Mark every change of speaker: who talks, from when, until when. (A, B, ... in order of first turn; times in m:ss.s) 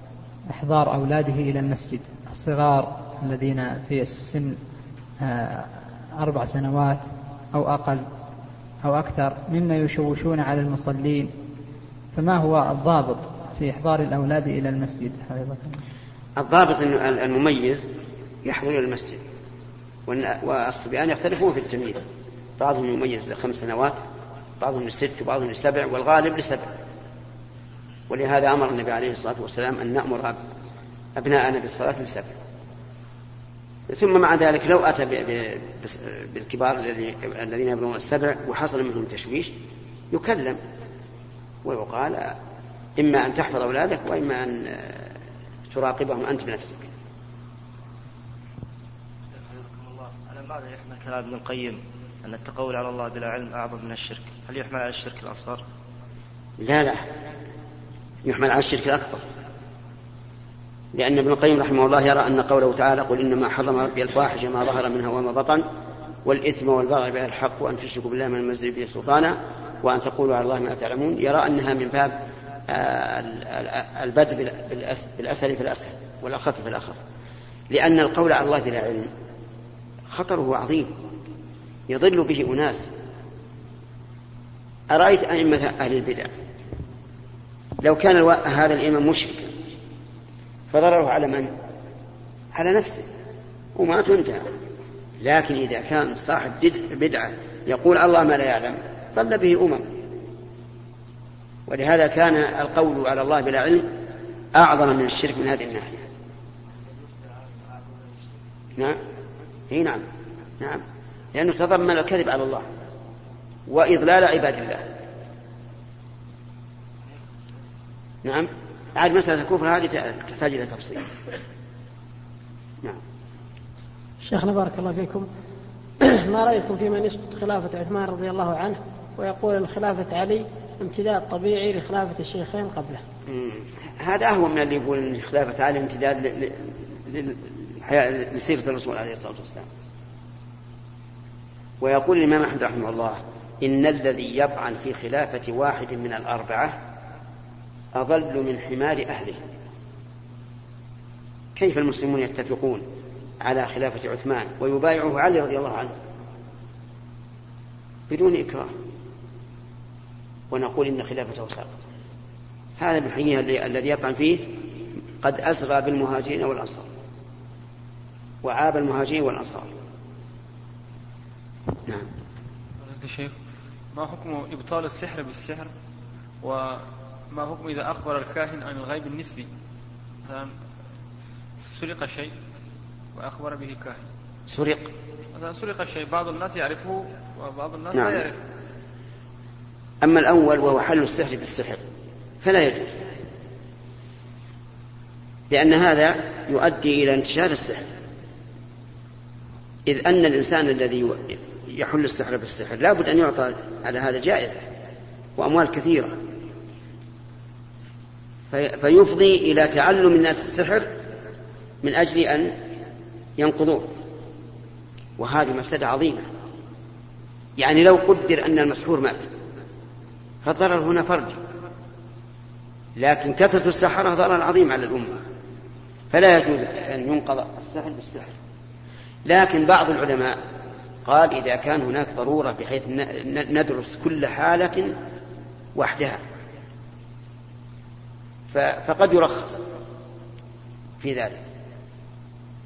0:00.5-0:04.6 A
0:05.2-0:08.1 A
0:08.8-0:11.3 A
0:12.1-0:15.8 A
0:16.4-0:17.8 B
0:18.4-0:19.2 B
0:20.1-0:22.0 B
0:22.6-0:24.0 B
0:24.6-0:26.7 B
0:28.1-0:30.4 B
0:31.2-0:32.3 B
0:33.9-0:39.5 B
0:40.1-0:40.6 B
0:41.6-0:42.4 B
0:43.0-0:45.1 B
0:45.7-0:46.9 B
0:49.4-0:55.6 C
0:56.6-0:57.0 B
0:58.2-0:59.2 B
1:00.9-1:05.6 B
1:06.2-1:12.2 B
1:12.7-1:17.0 B
1:17.7-1:19.1 B
1:20.1-1:21.0 B
1:21.9-1:22.9 B
1:24.9-1:26.3 B
1:27.8-1:29.5 B
1:30.7-1:31.5 B
1:32.5-1:33.1 B
1:33.8-1:34.5 B
1:35.2-1:39.9 B
1:41.7-1:43.9 B
1:44.6-1:46.0 B
1:47.2-1:48.2 C
1:49.7-1:50.0 B
1:51.3-1:52.7 B
1:53.7-1:54.8 B
1:58.2-2:01.1 B
2:04.2-2:05.3 D
2:06.0-2:13.0 D
2:13.3-2:19.7 B
2:21.8-2:26.8 B
2:28.0-2:29.4 B
2:31.6-2:32.8 B
2:33.4-2:35.9 B
2:38.1-2:38.7 B
2:40.5-2:41.8 B
2:42.8-2:44.6 B
2:45.2-2:46.9 B
2:48.4-2:49.7 B
2:52.9-2:53.3 E
2:53.9-2:55.7 E
2:56.4-2:59.5 E
3:00.2-3:00.5 E
3:01.7-3:02.3 E
3:03.2-3:04.0 E
3:04.5-3:04.9 B
3:05.4-3:08.4 E
3:07.9-3:08.2 B
3:10.0-3:11.8 B
3:12.4-3:13.0 B
3:15.5-3:17.8 B
3:19.9-3:24.6 B
3:25.4-3:26.2 B
3:28.5-3:30.9 B
3:31.8-3:32.6 B
3:33.4-3:33.9 B
3:35.2-3:36.3 B
3:37.6-3:39.3 B
3:40.4-3:41.4 B
3:43.0-3:45.2 B
3:46.1-3:48.4 B
3:49.3-3:50.4 B
3:51.0-3:55.0 B
3:55.8-3:56.2 B
3:58.5-3:59.6 B
4:01.0-4:01.4 B